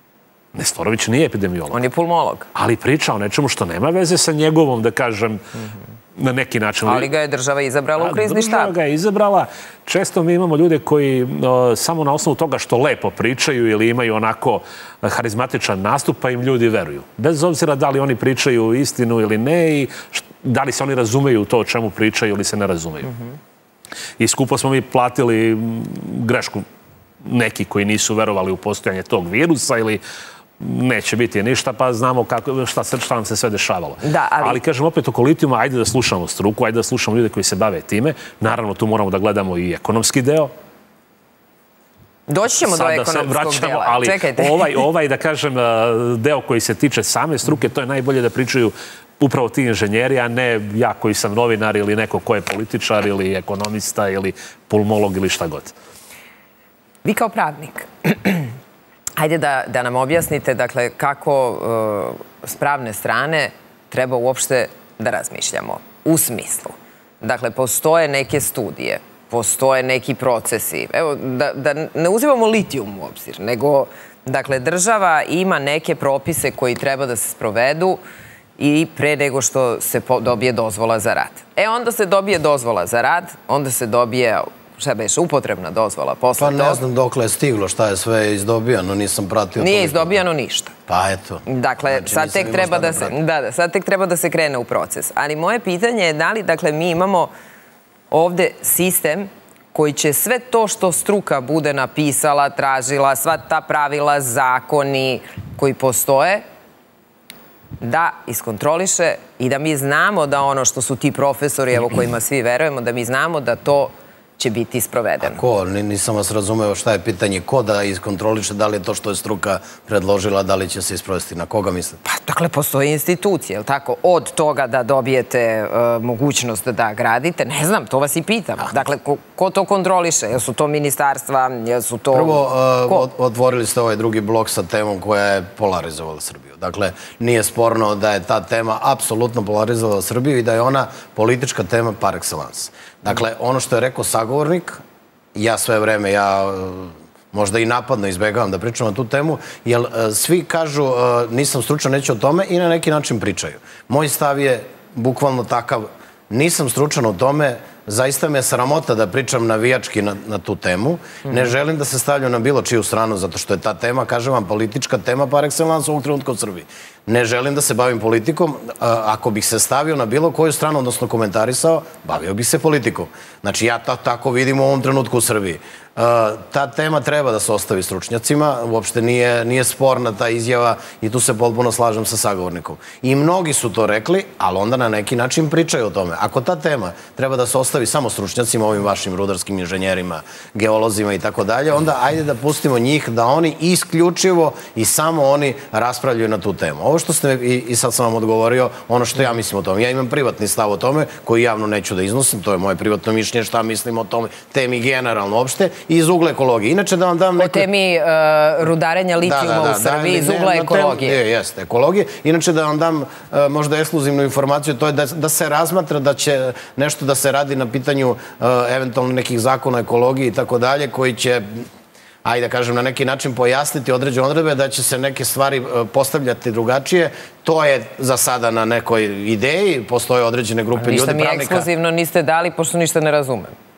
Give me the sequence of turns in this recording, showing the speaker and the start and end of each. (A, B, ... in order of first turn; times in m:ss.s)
0:00.6-0:01.8 A
0:01.7-0:02.5 B
0:02.6-0:05.6 A
0:06.2-0:07.1 A
0:06.9-0:08.7 B
0:08.0-0:23.1 A
0:24.2-0:26.6 A
0:27.2-0:30.0 A
0:30.6-0:40.5 A
0:34.0-0:34.6 B
0:42.3-0:44.7 B
0:42.6-0:55.7 A
0:57.0-0:58.5 B
0:59.2-1:18.0 B
1:18.6-1:26.8 B
1:26.4-1:30.2 C
1:29.6-1:30.7 B
1:30.9-1:33.2 C
1:31.4-1:37.3 B
1:38.1-1:46.4 B
1:47.8-1:55.4 B
1:55.2-2:02.0 C
2:02.0-2:13.0 B
2:12.1-2:24.8 C
2:25.4-3:27.7 C
3:27.4-3:31.2 B
3:29.2-3:41.6 C
3:42.2-3:51.7 C
3:50.8-3:53.5 B